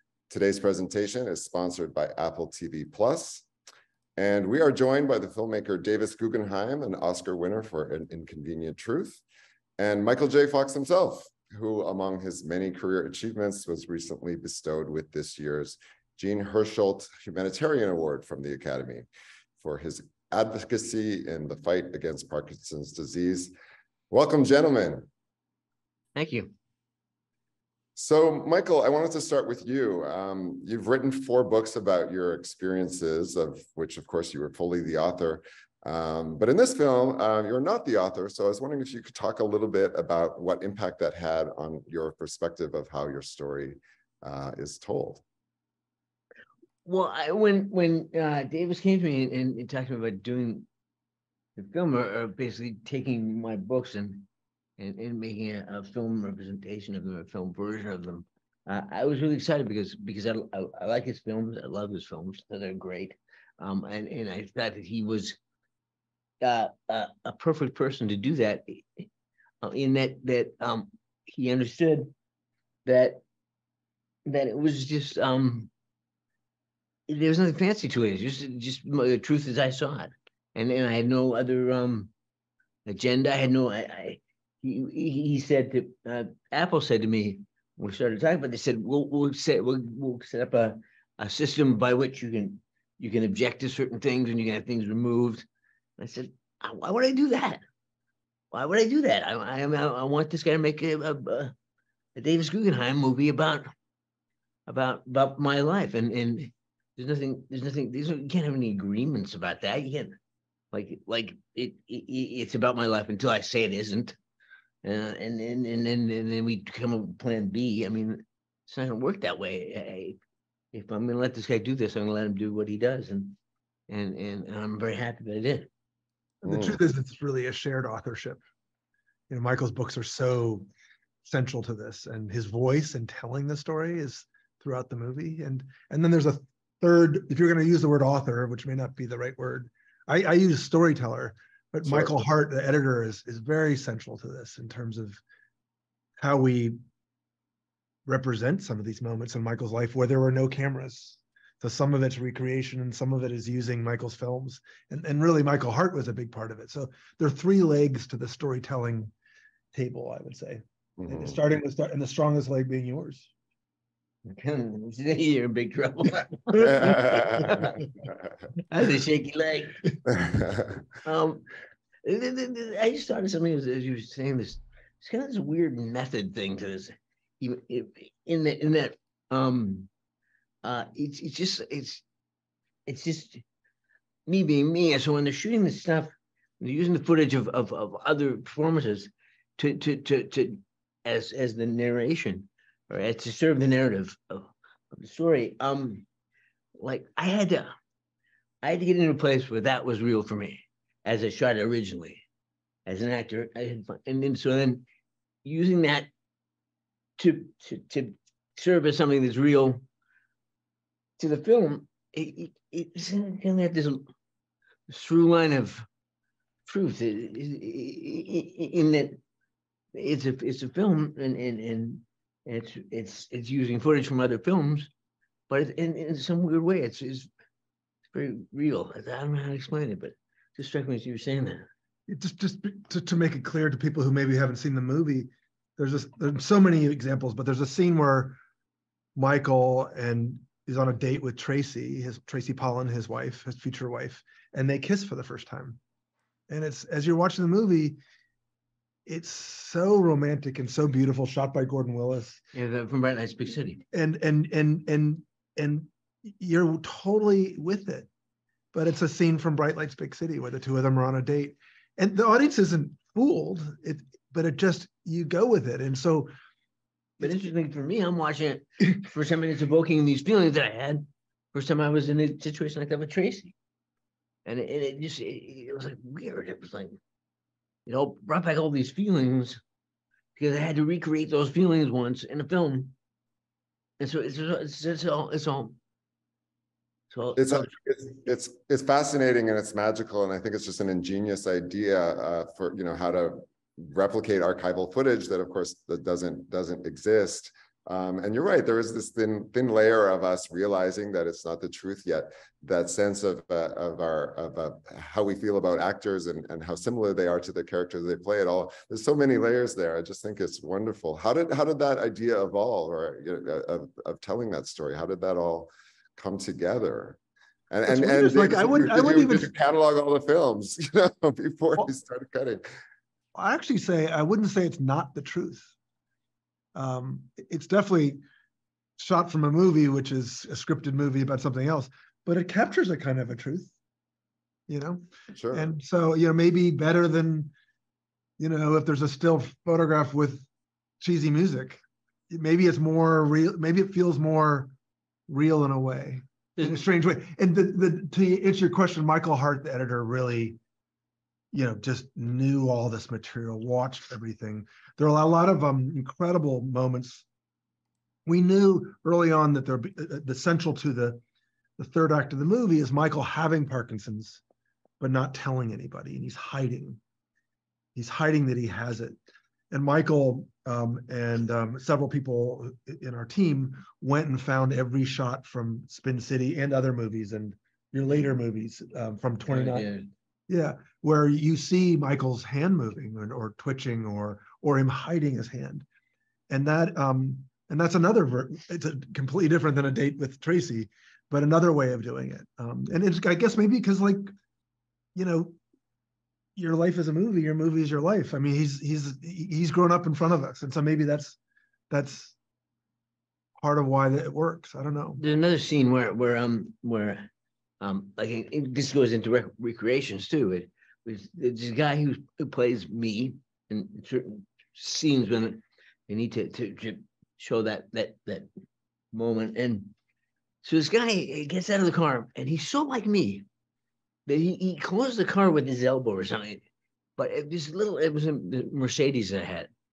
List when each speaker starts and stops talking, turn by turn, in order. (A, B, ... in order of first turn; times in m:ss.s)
0:00.3-0:03.5 A
0:04.2-0:09.2 A
0:09.8-0:19.1 A
0:19.6-0:23.5 A
0:24.1-0:25.1 A
0:26.2-0:26.5 B
0:28.0-0:45.2 A
0:46.8-0:50.7 B
0:51.6-0:54.3 B
0:54.8-1:05.4 B
1:06.4-1:09.1 B
1:09.6-1:12.1 B
1:12.9-1:13.2 B
1:14.3-1:15.7 B
1:17.1-1:22.1 B
1:22.9-1:35.5 B
1:36.0-1:37.6 B
1:38.5-1:41.5 B
1:42.2-1:43.7 B
1:44.7-1:50.2 B
1:50.7-1:54.2 B
1:54.8-2:00.2 B
2:00.7-2:03.4 B
2:03.9-2:05.7 B
2:06.4-2:08.4 C
2:06.4-2:06.8 A
2:09.3-2:10.7 C
2:11.2-2:25.2 C
2:21.8-2:22.2 A
2:26.2-2:26.8 C
2:28.1-2:39.1 C
2:39.7-2:43.3 C
2:41.0-2:41.4 A
2:44.3-2:47.8 B
2:46.7-2:47.6 A
2:48.7-2:49.9 B
2:51.0-2:51.5 B
2:52.0-2:59.9 B
3:00.6-3:02.0 B
3:02.9-3:03.4 B
3:04.3-3:16.0 B
3:16.8-3:17.7 B
3:18.6-3:22.2 B
3:22.9-3:24.8 B
3:25.4-3:26.1 B
3:27.2-3:29.8 B
3:31.2-3:34.1 B
3:34.9-3:35.9 B
3:36.7-3:39.2 B
3:40.0-3:44.9 B
3:45.5-3:47.3 B
3:48.1-3:51.7 B
3:52.1-3:58.4 C
3:59.2-4:05.8 C
4:06.5-4:08.0 C
4:09.1-4:12.4 C
4:12.5-4:13.8 B
4:13.9-4:18.1 C
4:18.7-4:26.3 C
4:27.2-4:33.5 B
4:34.5-4:37.0 B
4:37.9-4:39.6 B
4:40.4-4:42.9 B
4:44.0-4:45.8 B
4:47.1-4:47.7 B
4:47.4-5:17.2 A
5:17.7-5:22.7 A
5:17.9-5:19.5 C
5:23.4-5:25.7 C
5:26.8-5:28.2 C
5:29.0-5:33.7 C
5:34.7-5:37.5 C
5:35.3-5:35.8 A
5:38.4-5:40.5 C
5:41.0-5:44.7 C
5:45.3-5:50.6 C
5:51.5-5:57.2 C
5:58.3-6:01.2 C
6:01.8-6:04.4 C
6:05.0-6:07.0 C
6:08.0-6:09.2 C
6:09.7-6:19.9 C
6:19.4-6:20.1 B
6:20.5-6:25.9 C
6:26.5-6:34.3 C
6:35.2-6:35.6 C
6:36.6-6:41.4 C
6:41.9-6:42.4 C
6:43.6-6:45.2 C
6:45.2-6:47.3 B
6:47.8-6:58.5 B
6:59.1-6:59.9 B
7:00.6-7:03.5 B
7:04.3-7:06.6 B
7:07.2-7:09.7 B